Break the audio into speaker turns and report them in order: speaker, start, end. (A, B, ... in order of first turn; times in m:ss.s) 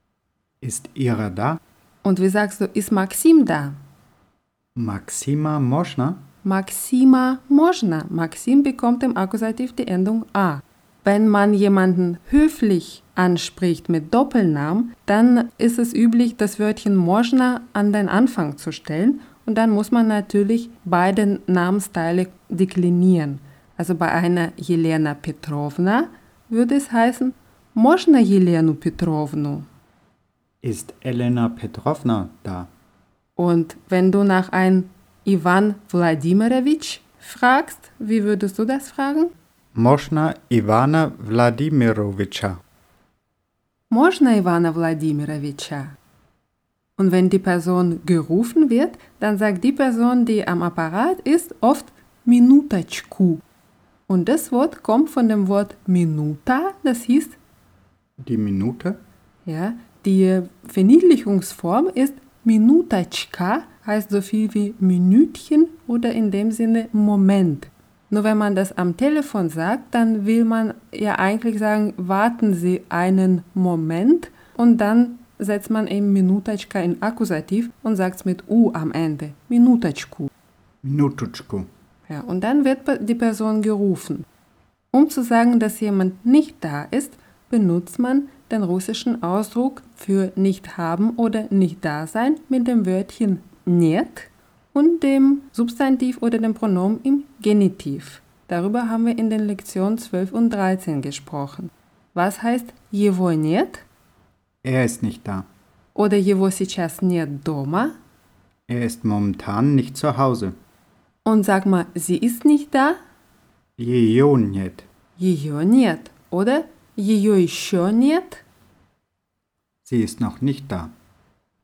0:00.6-0:01.6 A
0:02.0-0:03.8 B
0:04.7-0:06.3 A
0:06.4-0:29.7 B
0:30.6-0:32.7 A
0:33.4-0:39.3 B
0:39.7-0:42.6 A
0:43.9-0:46.0 B
0:47.0-0:53.4 B
0:54.1-0:57.4 B
0:58.2-0:59.0 A
0:59.4-1:20.3 B
1:20.8-1:21.7 A
1:22.1-1:24.2 B
1:24.9-1:43.8 B
1:44.6-1:45.5 A
1:45.9-1:48.0 B
1:48.7-1:50.6 A
1:51.2-1:53.0 B
1:53.8-1:54.8 A
1:55.2-1:58.4 B
1:59.8-2:00.9 A